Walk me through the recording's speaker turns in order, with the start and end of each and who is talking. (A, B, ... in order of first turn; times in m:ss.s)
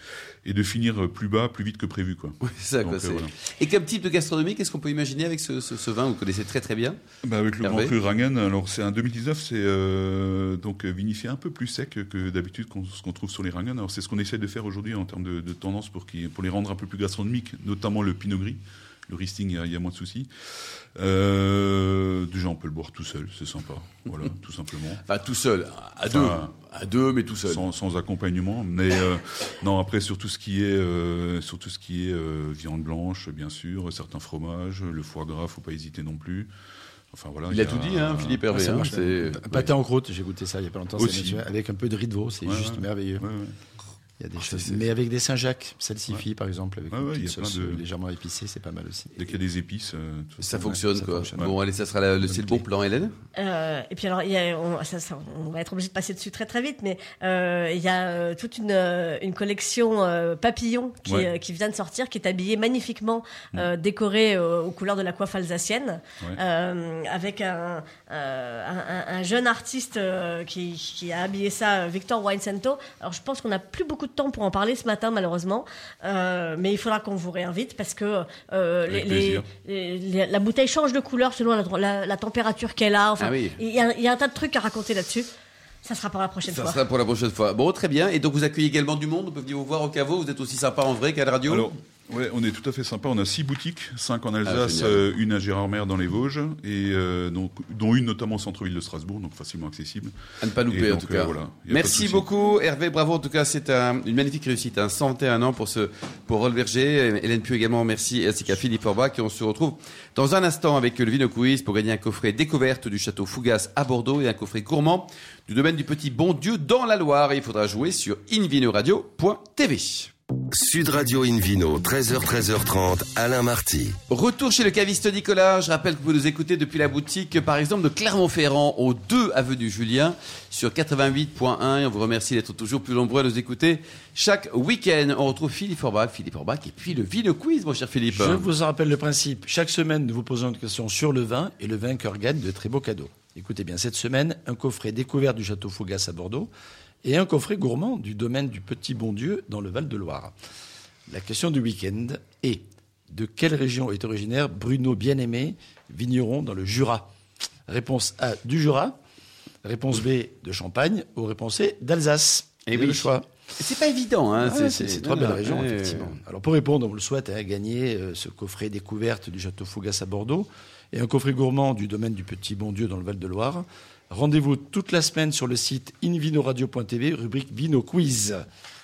0:00.4-0:03.3 A
0:02.4-0:07.0 B
0:07.2-0:20.3 A
0:07.6-0:07.9 B
0:21.0-0:25.0 A
0:25.1-0:27.7 B
0:26.0-0:26.5 A
0:27.4-0:36.5 A
0:37.1-0:38.5 A
0:37.5-0:39.7 B
0:38.5-0:43.2 C
0:41.0-0:41.4 A
0:42.4-0:43.5 A
0:44.2-0:49.1 C
0:44.4-0:44.8 B
0:46.9-0:47.8 A
0:49.1-0:50.8 A
0:50.4-0:51.5 C
0:50.4-0:53.1 B
0:52.2-0:52.6 C
0:53.3-1:25.3 D
1:01.0-1:01.3 A
1:18.8-1:19.5 A
1:23.2-1:23.6 B
1:25.8-1:26.8 D
1:26.4-1:31.7 B
1:31.5-1:42.3 A
1:34.4-1:35.0 B
1:40.4-2:00.1 B
2:00.5-2:04.0 E
2:04.1-2:18.4 B
2:18.1-2:26.5 C
2:27.0-2:30.3 C
2:31.1-2:37.1 C
2:37.7-2:39.0 C
2:39.6-2:43.3 C
2:42.7-2:46.1 B
2:44.4-2:58.4 C